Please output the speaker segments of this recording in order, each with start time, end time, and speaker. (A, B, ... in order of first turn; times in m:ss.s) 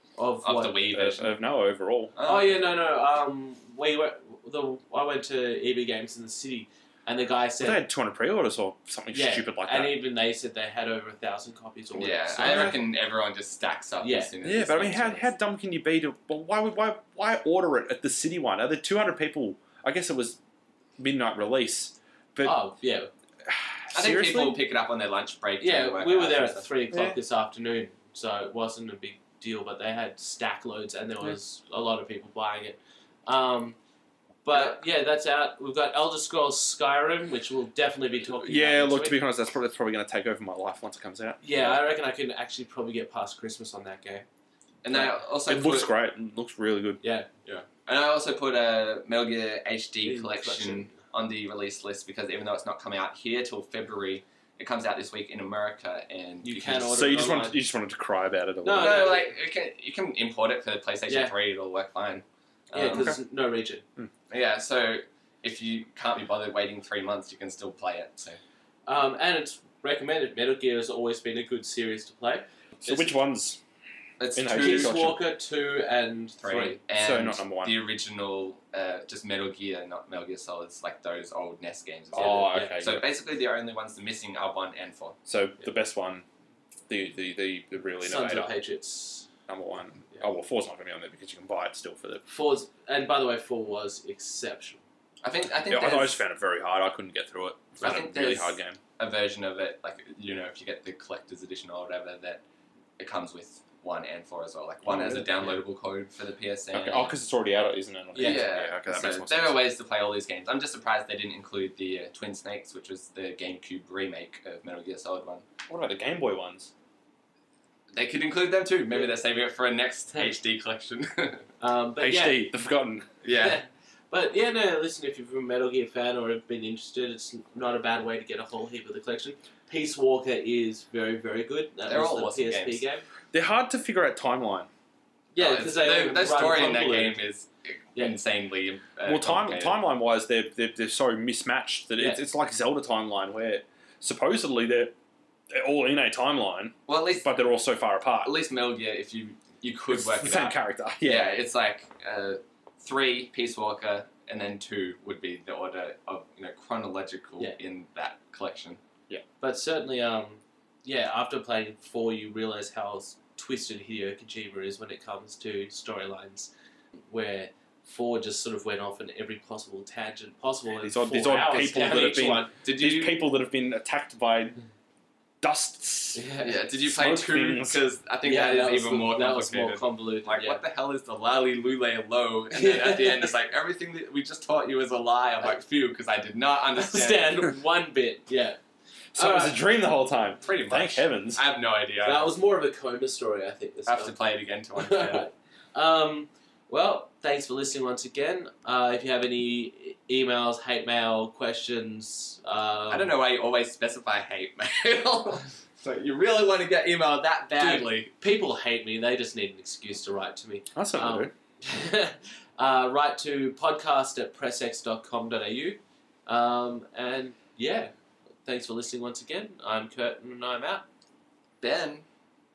0:00.2-0:01.0 A
0:00.4-0:01.3 B
0:00.9-0:02.1 C
0:02.1-0:02.6 B
0:02.2-0:07.8 A
0:07.6-0:10.0 C
0:09.1-0:12.8 A
0:12.0-0:15.3 B
0:14.0-0:14.3 A
0:14.4-0:20.4 C
0:21.0-0:22.6 C
0:22.4-0:23.1 A
0:23.4-0:24.6 C
0:23.9-0:26.7 B
0:25.6-0:33.8 A
0:34.4-0:39.2 A
0:38.3-0:41.4 C
0:41.4-0:44.2 A
0:44.8-0:45.9 B
0:45.4-0:47.0 C
0:47.0-0:47.6 A
0:47.8-0:56.9 B
0:50.0-0:50.9 A
0:56.4-0:57.6 A
0:56.8-0:59.2 C
0:58.6-0:59.3 A
0:58.8-1:03.1 B
1:01.1-1:01.3 A
1:02.7-1:03.8 A
1:02.9-1:03.2 C
1:04.3-1:08.4 B
1:08.8-1:12.4 A
1:12.8-1:13.6 C
1:12.8-1:13.2 B
1:14.2-1:15.0 B
1:14.3-1:15.2 C
1:14.4-1:16.8 A
1:16.4-1:25.2 B
1:17.0-1:17.8 C
1:22.1-1:23.0 C
1:22.2-1:22.8 A
1:25.2-1:26.2 C
1:26.9-1:28.5 C
1:28.0-1:29.3 A
1:29.5-1:32.2 C
1:32.3-1:34.8 A
1:35.2-1:36.2 B
1:35.7-1:38.8 C
1:37.8-1:42.4 B
1:43.0-1:47.1 B
1:44.8-1:45.3 C
1:46.7-1:49.6 C
1:48.1-1:48.5 A
1:48.2-1:55.4 B
1:55.7-1:56.7 C
1:57.9-2:01.5 B
2:01.6-2:02.5 A
2:02.0-2:03.1 C
2:03.2-2:03.6 B
2:03.3-2:13.0 A
2:11.8-2:12.8 B
2:13.3-2:14.7 C
2:15.3-2:17.2 A
2:15.4-2:19.8 B
2:19.0-2:24.9 C
2:25.5-2:28.3 C
2:26.9-2:27.3 B
2:28.2-2:38.8 B
2:29.9-2:31.3 C
2:39.4-2:46.5 A
2:47.1-2:52.5 A
2:50.8-2:54.6 C
2:52.6-2:53.2 B
2:55.4-2:56.2 C
2:56.2-2:56.6 A
2:56.4-3:07.5 B
2:56.8-2:57.8 C
2:58.2-3:00.6 A
3:02.5-3:03.3 A
3:06.8-3:08.6 A
3:09.1-3:11.4 C
3:09.2-3:09.6 A
3:10.4-3:12.3 B
3:12.0-3:14.1 A
3:13.8-3:15.3 B
3:14.8-3:23.1 A
3:22.9-3:28.1 B
3:27.6-3:37.9 A
3:30.8-3:31.3 C
3:38.4-3:40.8 A
3:41.6-3:42.0 B